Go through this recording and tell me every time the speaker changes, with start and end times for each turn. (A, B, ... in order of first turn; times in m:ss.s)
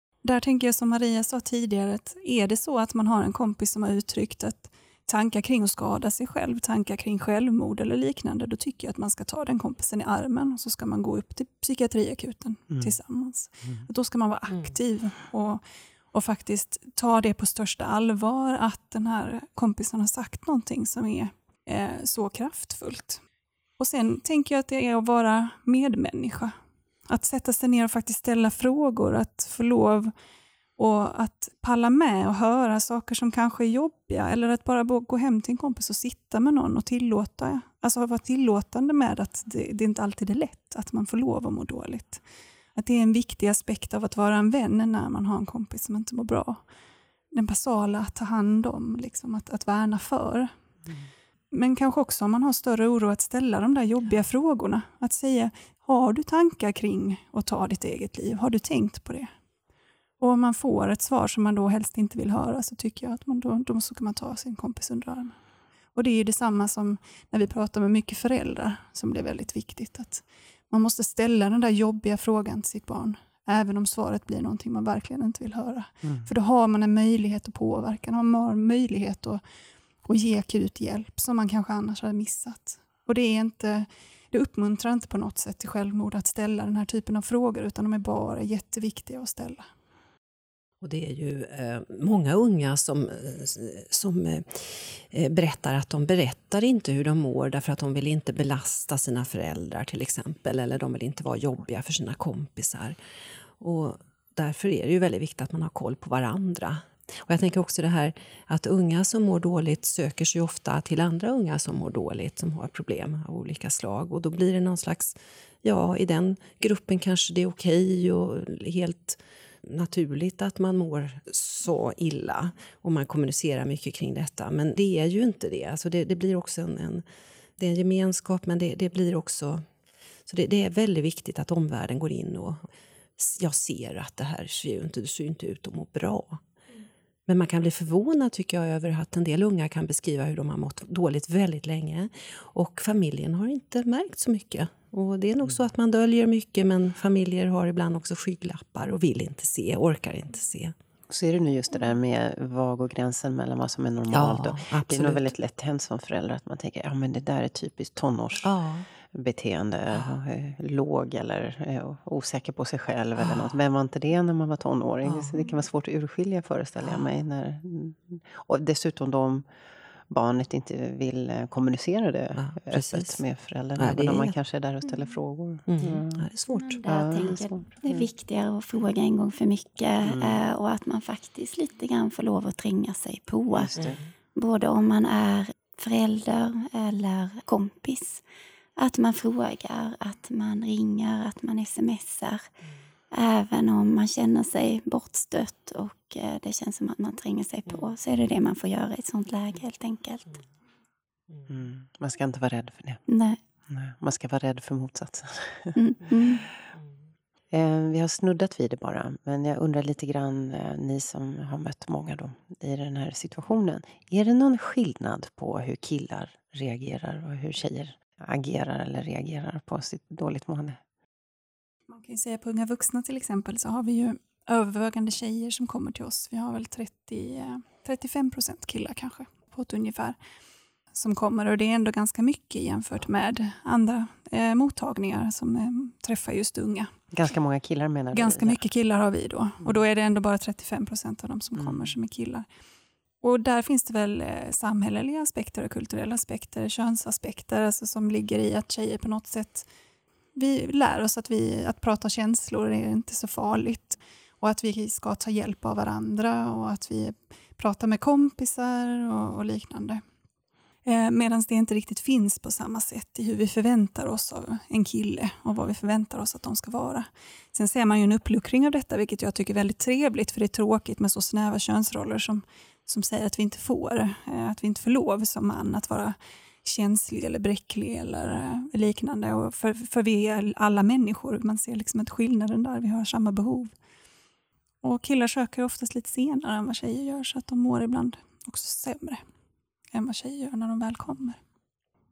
0:00.2-0:15.6 A
0:16.1-0:23.2 A
0:23.8-0:26.5 A
0:27.1-0:30.1 A
0:30.8-0:42.2 A
0:42.8-0:46.6 A
0:47.3-0:50.5 A
0:51.5-0:59.3 A
1:00.2-1:05.4 A
1:06.0-1:19.4 A
1:16.0-1:16.3 B
1:20.0-1:29.7 A
1:30.8-1:43.0 C
1:43.6-2:07.0 C
2:07.6-2:09.6 C
2:10.3-2:12.6 C
2:13.2-2:16.4 C
2:17.3-2:30.7 C
2:31.1-2:38.5 B
2:34.1-2:35.3 C
2:38.4-2:38.9 C
2:39.1-2:49.4 B
2:39.9-2:40.2 C
2:43.2-2:43.6 C
2:45.0-2:45.4 C
2:46.8-2:47.1 C
2:50.1-2:56.2 B
2:52.4-2:53.2 C
2:53.8-2:54.4 C
2:55.7-2:56.8 C
2:56.5-3:03.7 D
2:56.9-2:58.1 B
3:00.1-3:00.4 B
3:03.5-3:04.0 B
3:03.8-3:04.1 C
3:04.4-3:08.2 D
3:08.8-3:12.5 D
3:13.1-3:20.4 D
3:21.5-3:23.0 B
3:23.1-3:23.4 D
3:23.7-3:26.5 B
3:25.8-3:26.4 D
3:27.5-3:40.8 B
3:41.9-3:50.2 A
3:50.9-3:56.9 A
3:57.1-3:58.6 B
3:58.1-4:02.5 A
4:01.6-4:01.9 B
4:03.2-4:09.7 A
4:10.4-4:20.0 A
4:20.8-4:43.7 A
4:44.8-4:49.2 A
4:49.9-4:51.4 A